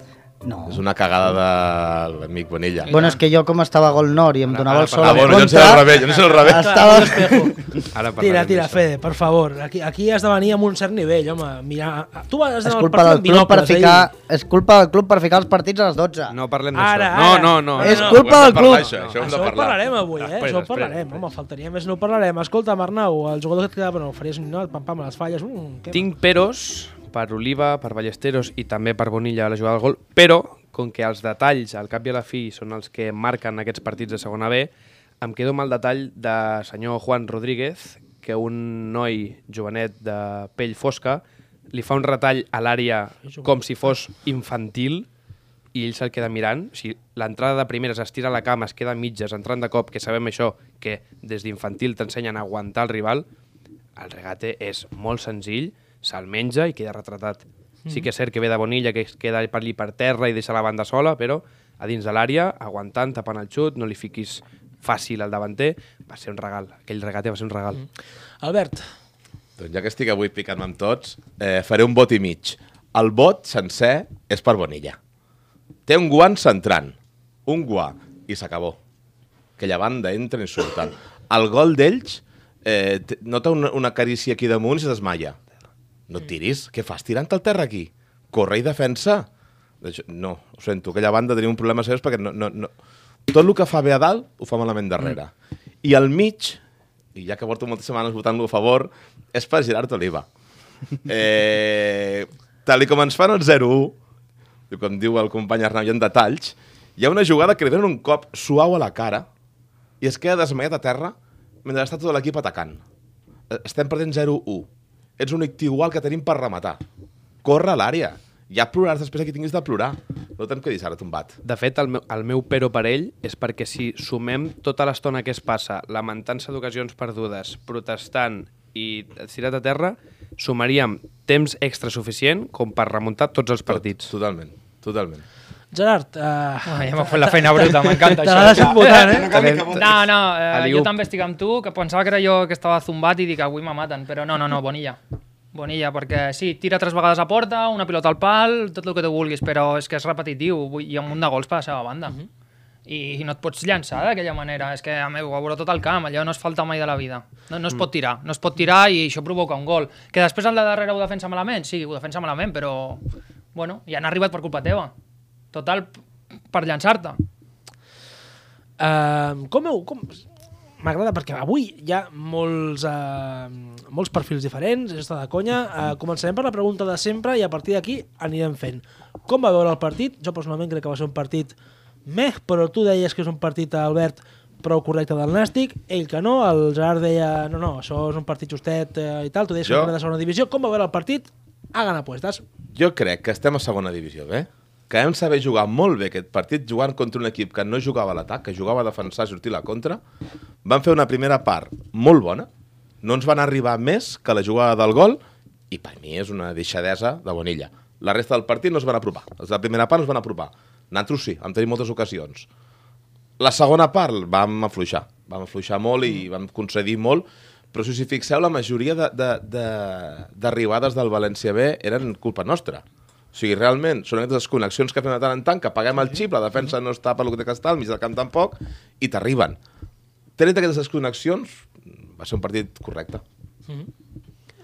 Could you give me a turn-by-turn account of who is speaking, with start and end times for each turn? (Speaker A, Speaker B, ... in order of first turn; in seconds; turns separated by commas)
Speaker A: 0.4-0.8, Speaker B: 0.7-2.9, Speaker C: 2.8-3.2, Speaker A: 2.9-7.8, Speaker D: 4.5-5.7, Speaker B: 5.0-7.1, Speaker E: 5.9-14.1, Speaker D: 7.9-8.8, Speaker A: 12.6-16.4, Speaker D: 16.3-19.4, Speaker E: 16.7-18.4, Speaker A: 17.8-18.9, Speaker B: 17.9-19.9, Speaker E: 19.2-26.1, Speaker D: 20.2-21.2, Speaker D: 25.9-34.7, Speaker D: 35.2-45.1, Speaker E: 43.2-43.5, Speaker D: 45.7-53.2, Speaker D: 54.0-67.8, Speaker E: 68.4-68.8, Speaker B: 69.6-75.0, Speaker B: 75.9-78.8, Speaker B: 79.6-85.4, Speaker B: 86.1-89.3, Speaker B: 89.8-92.7, Speaker B: 93.3-95.3, Speaker B: 95.8-96.6, Speaker B: 97.1-100.3, Speaker B: 101.0-104.0, Speaker B: 104.7-109.3, Speaker B: 110.0-112.8, Speaker B: 113.5-114.7, Speaker B: 115.2-116.8, Speaker B: 117.4-121.4, Speaker D: 121.4-134.1, Speaker B: 133.7-135.2, Speaker E: 135.7-139.3, Speaker C: 136.6-145.0, Speaker B: 138.3-140.1, Speaker A: 139.3-139.6, Speaker D: 140.5-140.9, Speaker C: 145.5-152.2, Speaker C: 152.8-163.0, Speaker C: 163.5-164.9, Speaker C: 165.5-165.9, Speaker C: 166.5-167.2, Speaker E: 168.8-170.2, Speaker E: 170.8-181.5, Speaker E: 182.1-192.4, Speaker B: 189.6-189.9, Speaker B: 192.7-200.0, Speaker B: 200.6-202.5, Speaker B: 203.0-212.5, Speaker B: 213.4-229.6, Speaker B: 230.4-233.2